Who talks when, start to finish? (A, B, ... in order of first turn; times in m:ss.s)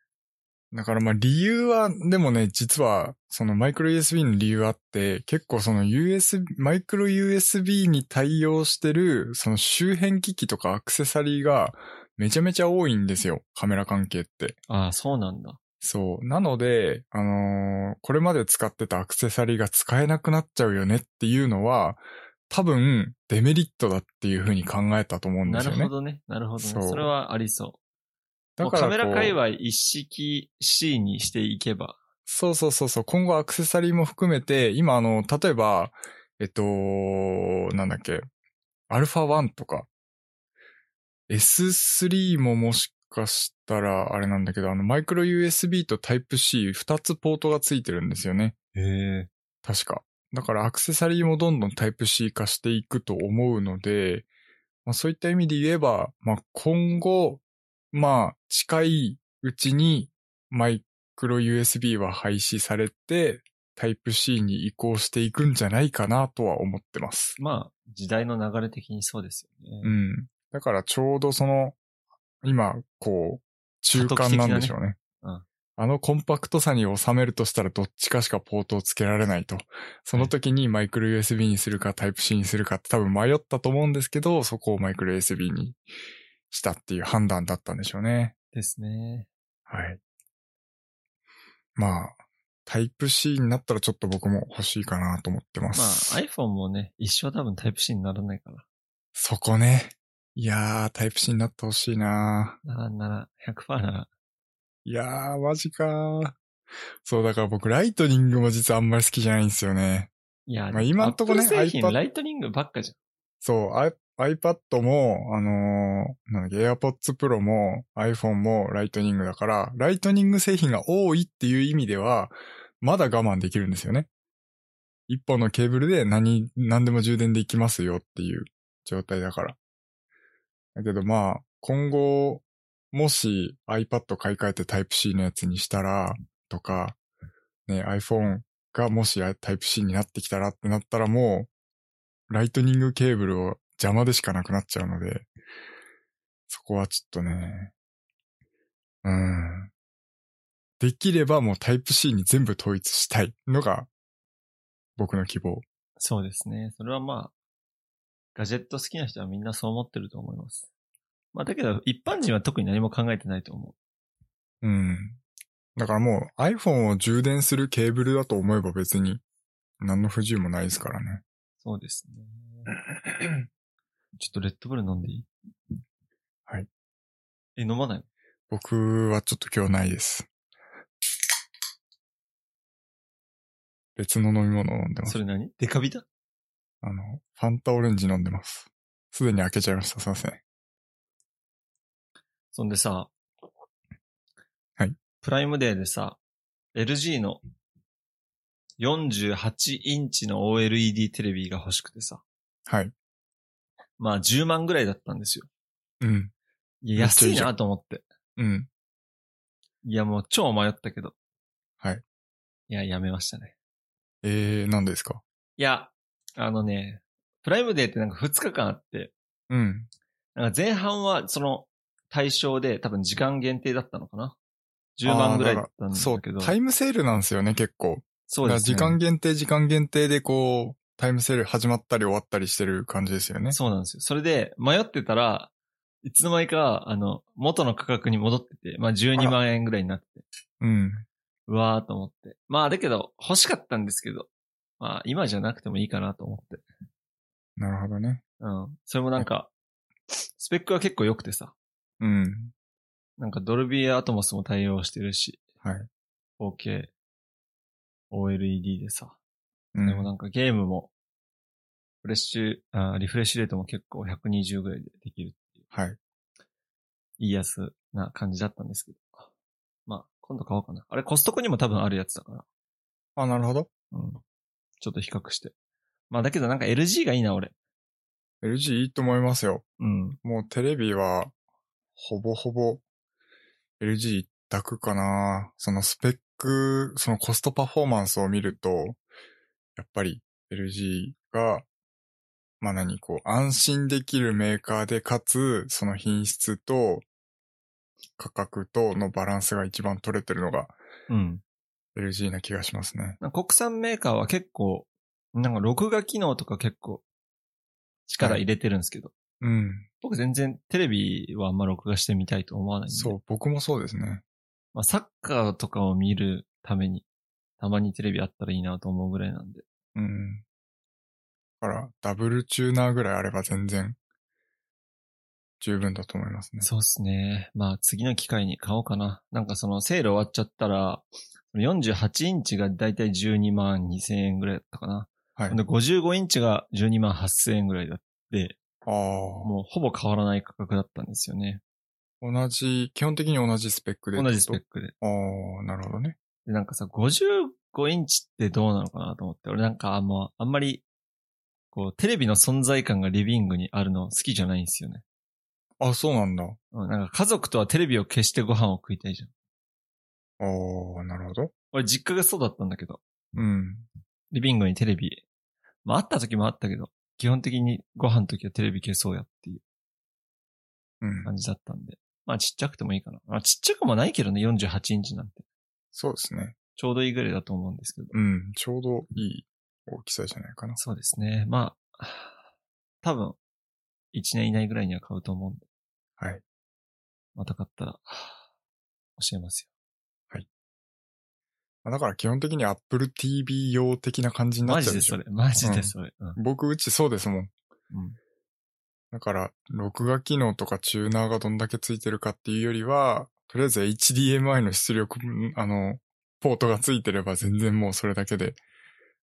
0:00.7-0:14.6 A
0:14.7-0:15.6 B
0:15.8-0:25.9 A
0:25.4-0:27.8 B
0:26.6-0:27.1 A
0:28.6-0:29.4 A
0:28.6-0:32.0 B
0:32.2-0:38.2 A
0:38.9-0:39.9 A
0:41.3-0:48.5 A
0:48.7-0:49.3 B
0:49.6-0:54.2 A
0:54.8-1:07.4 A
1:07.4-1:09.9 B
1:09.8-1:11.8 A
1:12.4-1:15.0 A
1:13.9-1:15.4 B
1:15.8-1:25.8 A
1:26.5-1:28.3 A
1:28.5-1:29.3 B
1:29.7-1:30.0 A
1:31.8-1:36.2 A
1:35.7-1:38.6 B
1:39.1-1:42.6 A
1:42.6-1:44.1 B
1:44.8-1:46.4 A
1:47.0-1:50.1 A
1:50.5-1:52.9 B
1:50.7-1:52.0 A
1:53.4-2:04.1 A
2:05.1-2:09.6 A
2:10.8-2:17.0 A
2:17.7-2:21.5 A
2:22.3-2:25.3 A
2:26.5-2:27.7 A
2:29.0-2:29.7 A
2:30.8-2:33.9 A
2:35.0-2:35.6 A
2:36.0-2:37.3 B
2:38.3-2:40.6 B
2:41.3-2:43.7 B
2:44.6-2:45.2 A
2:45.8-2:49.2 A
2:49.8-2:51.2 A
2:51.6-2:52.6 B
2:54.2-2:55.3 B
2:57.6-2:58.0 B
2:58.5-3:00.3 A
3:04.0-3:05.2 A
3:05.0-3:06.0 B
3:06.8-3:10.4 A
3:12.5-3:13.1 B
3:15.2-3:16.2 B
3:16.7-3:17.4 B
3:18.8-3:22.2 B
3:22.7-3:22.9 A
3:24.0-3:25.5 B
3:26.0-3:26.3 A
3:26.8-3:28.0 B
3:27.0-3:27.5 A
3:28.4-3:28.7 A
3:29.8-3:31.1 B
3:32.7-3:33.5 B
3:34.2-3:35.2 A
3:35.6-3:39.1 B
3:39.5-3:39.9 A
3:40.4-3:44.4 B
3:45.0-3:46.5 B
3:45.0-3:53.6 A
3:48.3-3:49.0 B
3:53.5-3:55.5 B
3:56.0-4:00.2 B
4:00.6-4:01.0 A
4:01.5-4:06.6 B
4:07.6-4:08.2 A
4:08.4-4:09.5 B
4:10.1-4:11.5 B
4:12.0-4:12.5 A
4:13.2-4:15.4 B
4:15.6-4:15.9 A
4:16.4-4:16.9 B
4:18.1-4:19.2 B
4:19.7-4:20.1 A
4:19.8-4:20.9 B
4:22.0-4:25.6 B
4:25.7-4:26.0 A
4:27.2-4:29.2 B
4:29.9-4:32.4 B
4:33.2-4:33.7 A
4:33.9-4:34.2 B
4:34.8-4:35.5 B
4:36.1-4:37.5 B
4:38.4-4:39.6 A
4:39.8-4:40.2 B
4:40.2-4:41.3 A
4:42.0-4:42.8 A
4:43.8-4:49.0 A
4:49.8-4:51.6 A
4:52.6-4:57.0 A
4:58.2-5:00.8 A
5:01.1-5:01.4 B
5:01.9-5:03.2 A
5:03.2-5:07.0 B
5:08.1-5:09.1 B
5:09.4-5:09.9 A
5:10.0-5:13.2 B
5:12.9-5:14.2 A
5:14.7-5:17.0 B
5:17.6-5:19.6 B
5:19.9-5:20.4 A
5:21.6-5:24.0 A
5:25.6-5:26.7 A
5:26.6-5:38.6 B
5:38.8-5:39.5 A
5:39.4-5:41.6 B
5:42.2-5:46.2 A
5:44.1-5:44.9 B
5:46.4-5:50.8 B
5:51.7-5:55.0 B
5:55.8-5:56.6 A
5:56.7-5:59.3 B
6:00.4-6:01.5 A
6:01.7-6:03.0 B
6:03.3-6:03.9 A
6:04.3-6:05.2 B
6:05.8-6:09.6 B
6:11.0-6:11.3 A
6:11.2-6:15.4 B
6:15.9-6:16.5 A
6:16.8-6:18.1 B
6:18.1-6:20.8 A
6:20.8-6:22.4 B
6:23.0-6:23.4 B
6:24.1-6:25.6 B
6:27.4-6:28.4 B
6:29.2-6:29.7 B
6:31.8-6:37.5 A
6:34.6-6:36.4 B
6:37.9-6:38.2 B
6:39.1-6:48.6 A